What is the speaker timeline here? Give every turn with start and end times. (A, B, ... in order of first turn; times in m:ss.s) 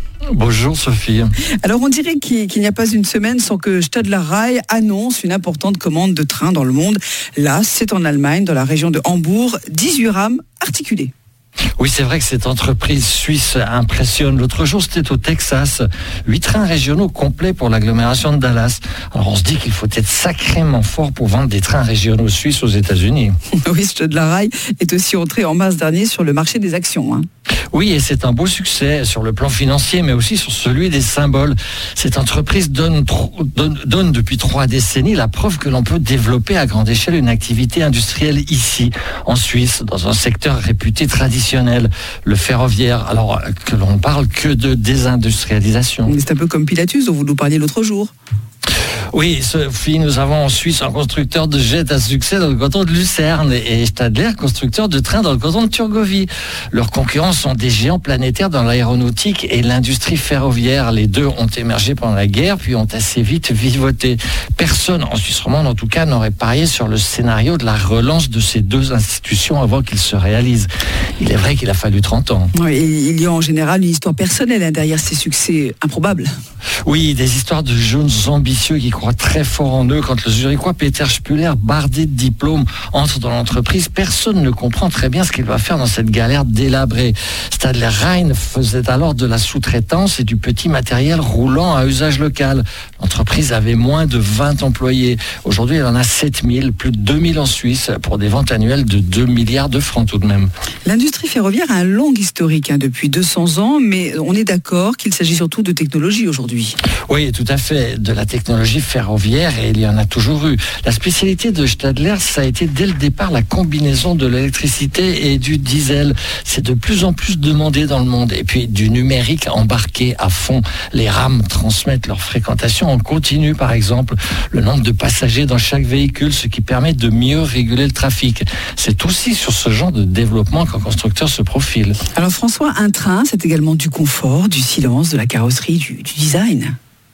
0:00.3-0:01.3 A
0:01.6-0:11.1 B
0:11.8-0:23.3 A
0:23.7-0:27.2 B
0:27.7-0:46.1 A
0:46.1-0:48.1 B
0:49.1-1:12.5 A
1:12.5-1:16.3 B
1:16.8-1:40.5 A
1:40.9-1:46.8 B
1:47.1-2:12.0 A
2:12.2-2:16.8 B